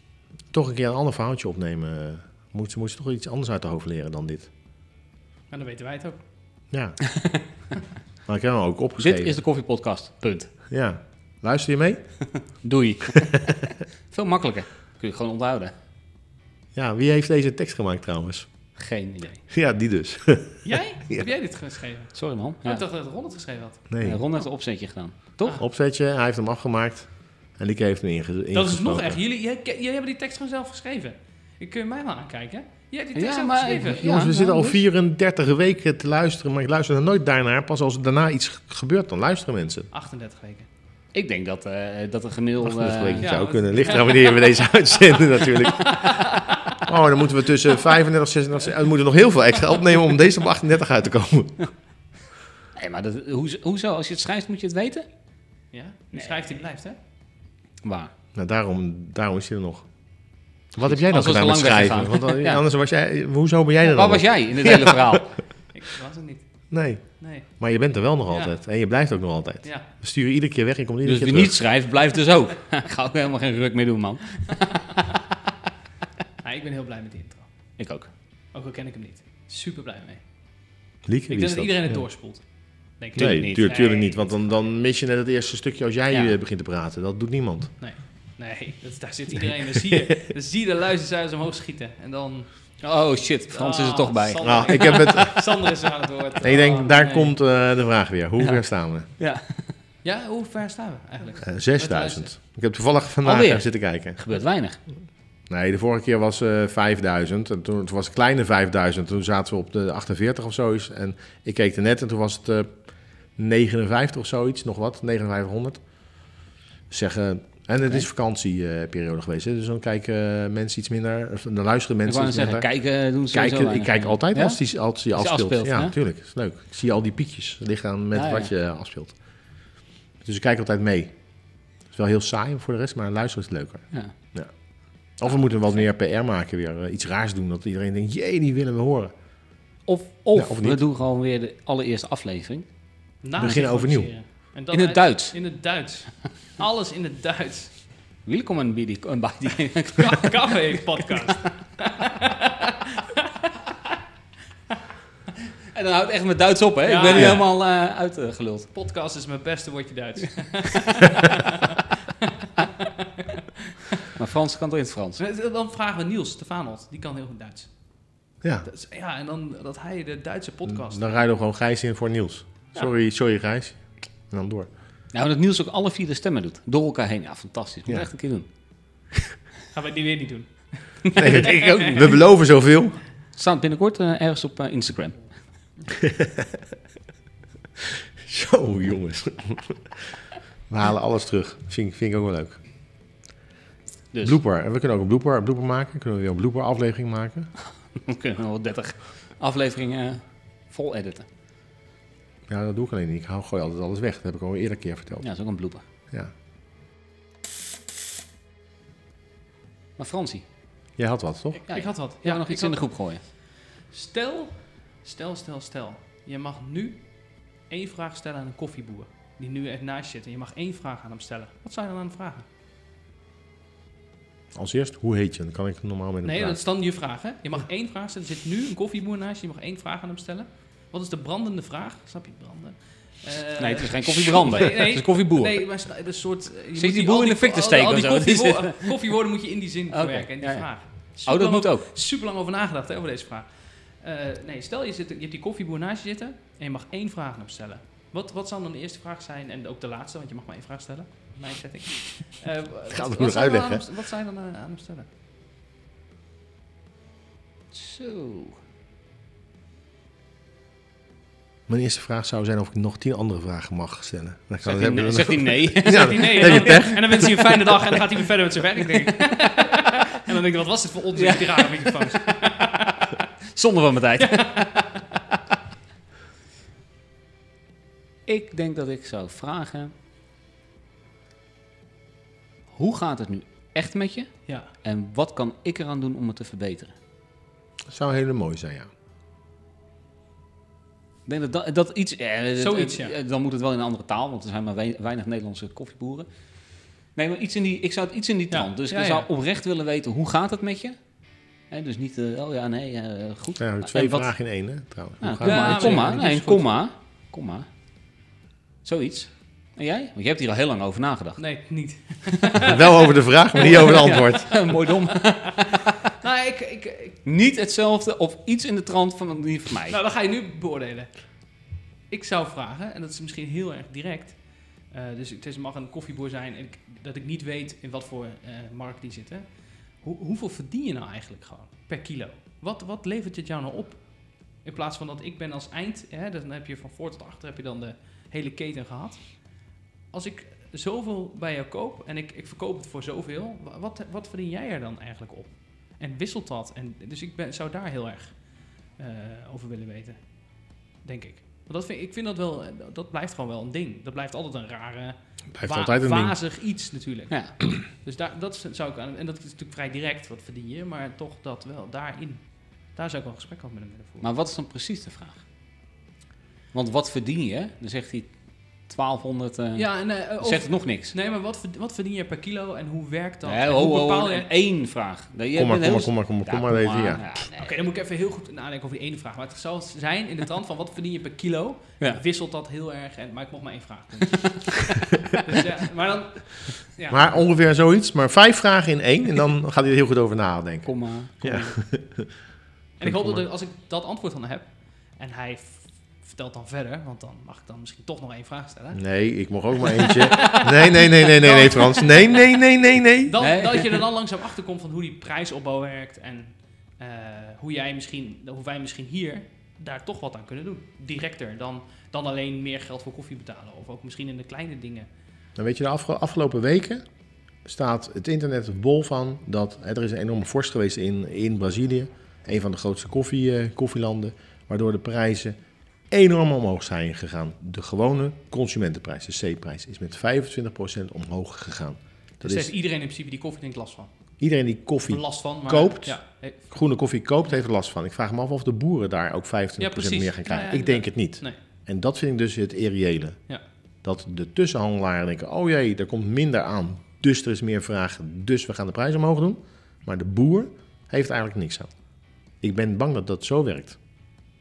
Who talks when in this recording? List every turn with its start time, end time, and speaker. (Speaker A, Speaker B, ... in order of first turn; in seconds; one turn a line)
Speaker A: 0.5-4.5
Speaker B: 5.5-6.2
Speaker A: 6.7-7.2
Speaker A: 8.3-9.4
Speaker C: 9.0-10.5
Speaker A: 10.7-12.2
Speaker C: 12.6-13.4
Speaker C: 14.1-15.7
Speaker A: 16.7-18.5
Speaker C: 18.8-19.4
Speaker A: 19.5-21.3
Speaker B: 20.6-23.9
Speaker C: 22.1-22.8
Speaker A: 23.9-24.2
Speaker C: 24.0-25.6
Speaker A: 25.6-29.2
Speaker B: 28.5-34.1
Speaker C: 33.1-34.8
Speaker A: 34.0-39.9
Speaker B: 39.9-40.7
Speaker C: 41.1-43.4
Speaker A: 42.6-51.7
Speaker B: 43.2-46.8
Speaker C: 52.8-55.0
Speaker B: 55.7-57.0
Speaker C: 56.1-56.6
Speaker C: 57.8-58.1
Speaker A: 58.3-59.9
Speaker A: 60.7-65.0
Speaker C: 60.8-62.6
Speaker C: 63.8-65.3
Speaker B: 65.7-66.4
Speaker A: 66.7-71.6
Speaker B: 67.2-67.5
Speaker B: 68.3-68.5
Speaker B: 69.6-69.9
Speaker C: 71.0-75.0
Speaker B: 76.4-77.5
Speaker C: 77.8-78.1
Speaker B: 78.5-80.2
Speaker A: 81.0-82.0
Speaker B: 81.3-82.4
Speaker B: 83.0-84.6
Speaker C: 83.2-83.7
Speaker A: 83.2-87.7
Speaker C: 86.1-86.3
Speaker B: 87.8-92.8
Speaker C: 92.8-94.8
Speaker B: 93.5-97.3
Speaker A: 94.4-95.5
Speaker A: 96.4-99.1
Speaker C: 99.2-99.7
Speaker B: 100.0-102.3
Speaker A: 101.4-104.2
Speaker C: 103.2-104.8
Speaker A: 105.5-115.8
Speaker A: 116.9-129.7
Speaker C: 122.0-125.9
Speaker C: 128.1-128.5
Speaker A: 130.2-131.2
Speaker A: 131.9-139.1
Speaker C: 139.8-142.7
Speaker A: 140.3-140.8
Speaker B: 143.2-147.7
Speaker A: 143.4-144.1
Speaker C: 144.7-145.3
Speaker C: 148.2-150.3
Speaker B: 150.0-153.2
Speaker C: 155.7-158.7
Speaker B: 156.8-157.4
Speaker A: 157.1-157.4
Speaker B: 158.7-161.7
Speaker B: 162.6-162.9
Speaker C: 164.1-165.2
Speaker B: 165.2-167.7
Speaker B: 168.7-171.2
Speaker A: 170.7-174.7
Speaker C: 175.1-178.5
Speaker A: 177.9-178.1
Speaker B: 179.7-182.1
Speaker A: 181.2-183.0
Speaker C: 183.3-185.2
Speaker A: 188.2-190.0
Speaker A: 190.7-192.6
Speaker A: 194.2-197.5
Speaker C: 197.9-201.2
Speaker A: 202.5-205.2
Speaker C: 205.2-205.8
Speaker C: 210.0-210.4
Speaker A: 211.0-211.6
Speaker C: 211.7-213.2
Speaker B: 211.7-212.8
Speaker B: 213.9-217.0
Speaker B: 217.7-222.4
Speaker A: 224.5-226.6
Speaker B: 226.2-255.1
Speaker C: 233.6-235.6
Speaker C: 236.7-238.9
Speaker C: 239.9-241.9
Speaker A: 252.9-253.8
Speaker C: 257.7-258.6
Speaker A: 261.7-267.6
Speaker C: 264.6-266.9
Speaker B: 265.8-273.1
Speaker C: 268.9-269.8
Speaker C: 271.1-272.2
Speaker C: 273.5-274.9
Speaker B: 274.2-274.9
Speaker C: 278.2-279.9
Speaker C: 282.7-286.9
Speaker A: 287.9-288.9
Speaker C: 291.2-296.3
Speaker B: 292.6-293.1
Speaker C: 297.1-301.0
Speaker B: 298.5-299.3
Speaker C: 301.7-304.3
Speaker A: 303.6-306.1
Speaker C: 305.2-307.7
Speaker B: 305.4-306.7
Speaker C: 308.8-311.4
Speaker B: 311.4-314.4
Speaker A: 312.6-314.5
Speaker C: 313.6-316.0
Speaker B: 316.2-317.2
Speaker C: 317.2-320.0
Speaker B: 319.9-321.1
Speaker B: 322.1-364.2
Speaker A: 355.5-356.4
Speaker C: 364.2-365.4
Speaker C: 366.7-371.1
Speaker B: 369.8-374.5
Speaker C: 373.4-377.7
Speaker A: 375.5-377.2
Speaker B: 377.5-387.3
Speaker A: 387.1-392.3
Speaker C: 390.8-391.8
Speaker B: 393.0-399.0
Speaker A: 393.0-393.4
Speaker A: 398.9-403.3
Speaker B: 399.8-402.6
Speaker B: 403.2-415.1
Speaker C: 403.4-404.0
Speaker A: 415.6-417.0
Speaker A: 417.6-425.6
Speaker A: 426.1-432.7
Speaker B: 432.4-434.1
Speaker A: 434.4-443.4
Speaker B: 435.1-436.8
Speaker B: 439.8-441.6
Speaker A: 444.0-452.0
Speaker A: 452.6-454.0